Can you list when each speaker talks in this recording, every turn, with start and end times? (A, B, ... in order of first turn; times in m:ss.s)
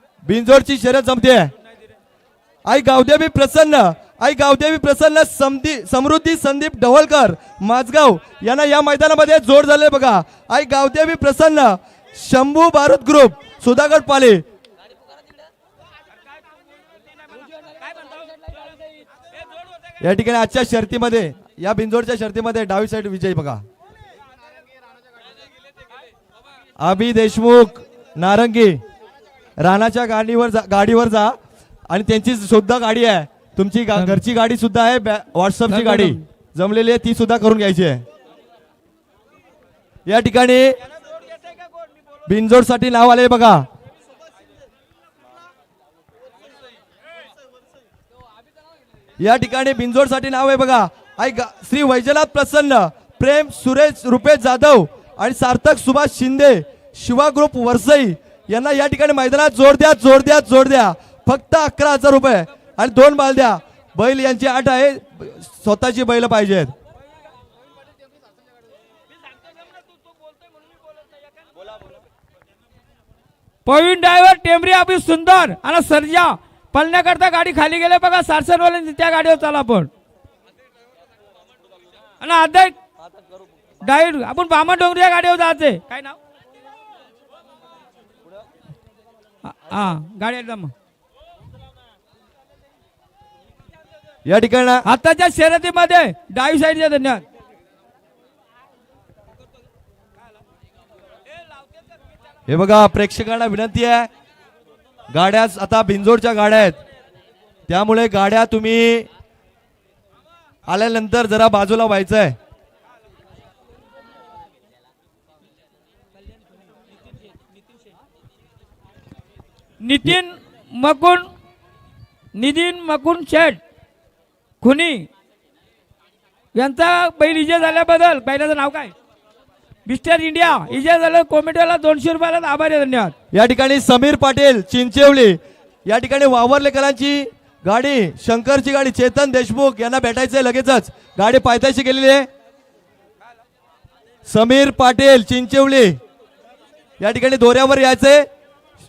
0:00.2-0:01.5 A
0:02.7-0:14.4 A
0:17.2-0:18.8 B
0:19.3-0:19.9 B
0:20.0-0:23.6 A
0:26.8-0:28.8 A
0:29.6-0:31.4 A
0:31.9-0:38.0 A
0:35.7-0:36.2 B
0:40.1-0:40.8 A
0:41.0-0:41.8 B
0:42.3-0:43.7 A
0:49.2-1:06.7 A
1:09.4-1:10.0 B
1:13.7-1:19.9 B
1:22.2-1:22.8 B
1:23.8-1:26.2 B
1:29.4-1:30.7 B
1:34.3-1:34.8 A
1:34.8-1:37.2 B
1:42.5-1:44.1 A
1:45.1-1:46.8 A
1:47.7-1:49.1 A
1:50.7-1:52.4 A
1:59.8-2:01.3 B
2:02.4-2:03.6 B
2:04.6-2:05.1 B
2:06.6-2:08.9 B
2:09.9-2:13.1 B
2:13.3-2:22.3 A
2:24.3-2:26.0 A
2:27.0-2:28.3 A